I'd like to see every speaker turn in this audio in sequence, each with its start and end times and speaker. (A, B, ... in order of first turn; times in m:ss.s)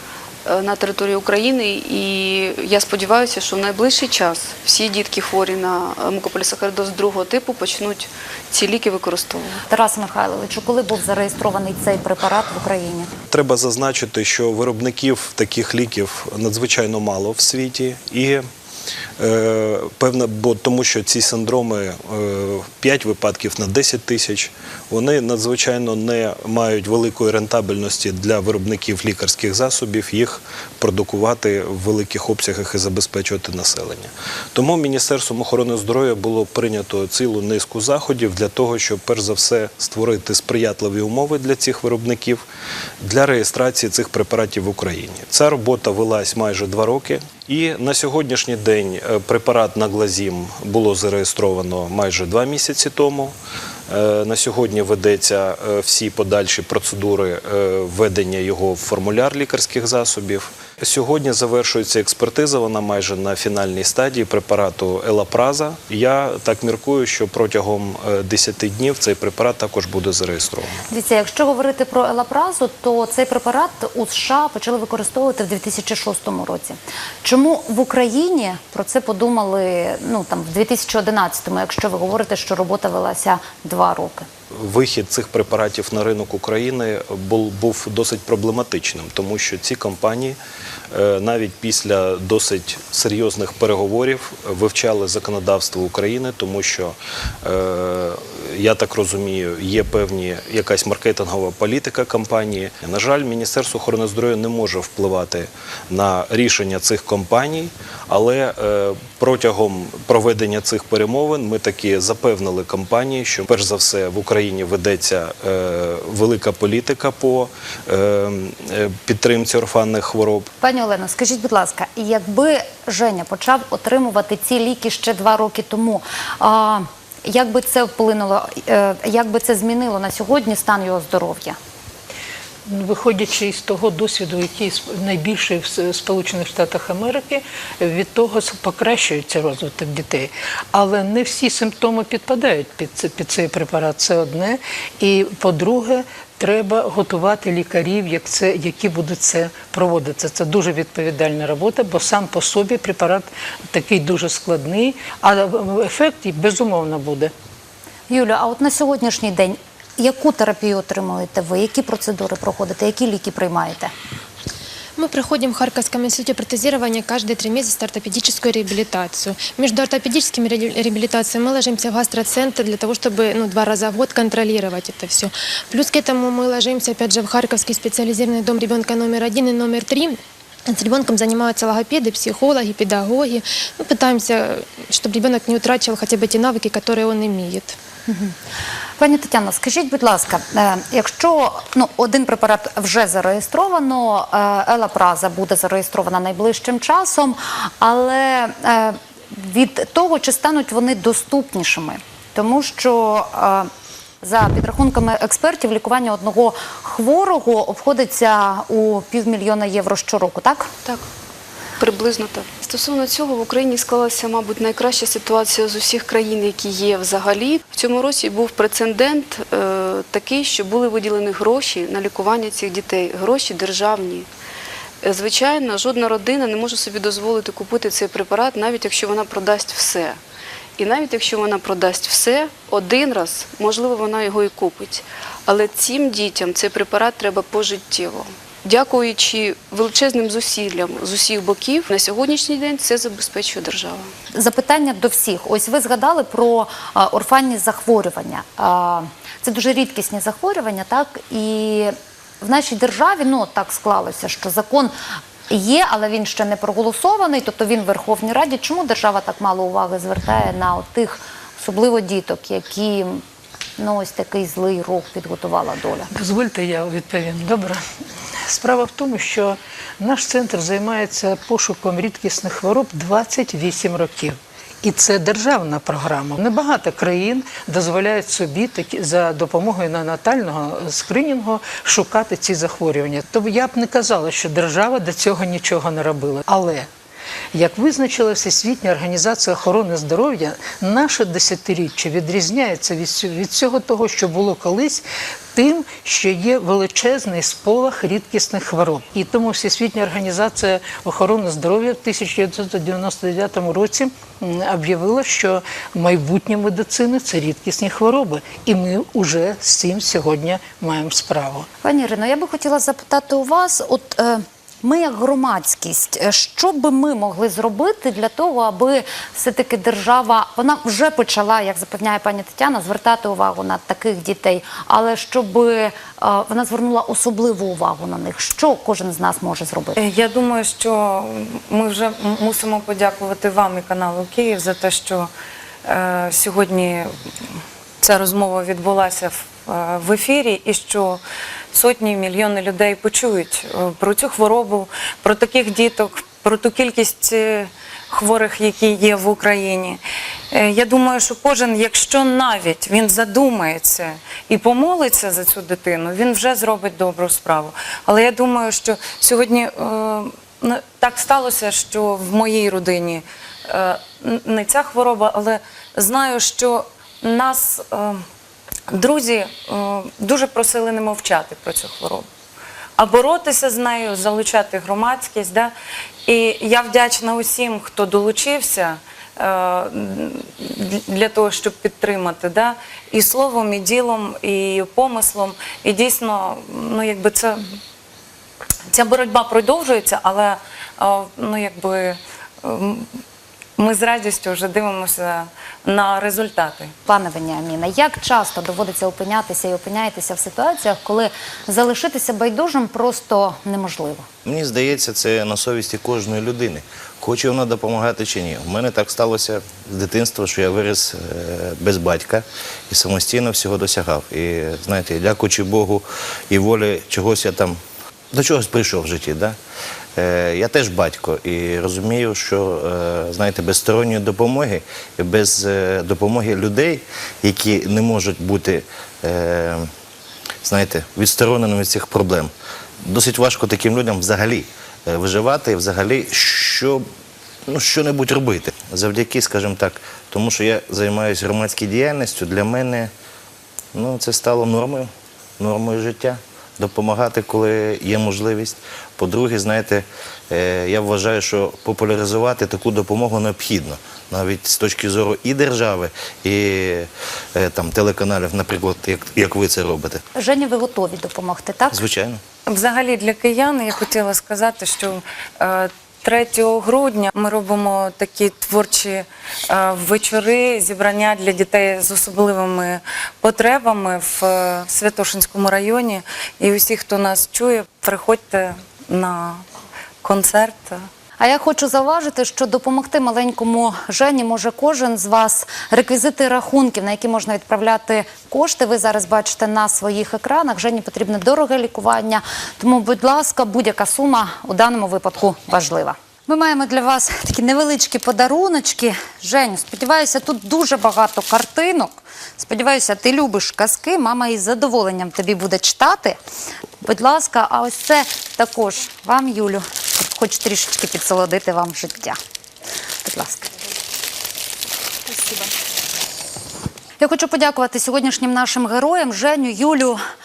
0:00.5-0:09.6 A
0:09.7-0:13.1 B
0:13.3-0:18.5 C
0:19.2-0:42.4 C
0:43.0-0:53.3 C
0:53.9-1:10.8 C
1:10.9-1:24.3 B
1:24.5-1:30.4 C
1:30.9-2:00.5 C
2:00.6-2:11.6 B
2:12.7-2:37.3 D
2:38.1-2:43.9 B
2:45.0-3:00.2 E
3:00.7-3:07.8 E
3:08.1-3:08.4 B
3:09.0-3:23.7 B
3:24.2-3:30.7 B
3:31.8-3:44.3 A
3:45.0-3:50.2 A
3:50.8-4:04.1 A
4:04.3-4:14.9 B
4:15.5-4:23.2 B
4:23.8-4:26.1 B
4:26.1-4:27.8 D
4:28.5-4:46.9 D
4:47.5-5:11.7 D
5:11.8-5:30.0 B
5:30.0-5:35.3 F
5:35.9-5:37.1 F
5:38.0-5:41.2 F
5:41.7-5:50.0 F
5:50.5-6:08.2 F
6:08.9-6:12.3 F
6:13.0-6:15.7 F
6:16.3-6:27.8 F
6:28.9-6:33.2 F
6:33.8-6:36.9 F
6:37.1-6:44.3 B
6:44.5-6:57.8 G
6:58.3-6:59.6 G
7:00.2-7:09.9 G
7:10.6-7:12.5 G
7:13.0-7:17.1 G
7:17.7-7:23.1 G
7:23.9-7:40.2 G
7:40.4-7:42.0 B
7:41.9-7:42.4 G
7:42.7-7:59.6 F
8:00.2-8:01.1 F
8:01.4-8:26.4 B
8:27.0-8:32.4 B
8:33.2-8:33.7 B
8:37.2-8:40.2 B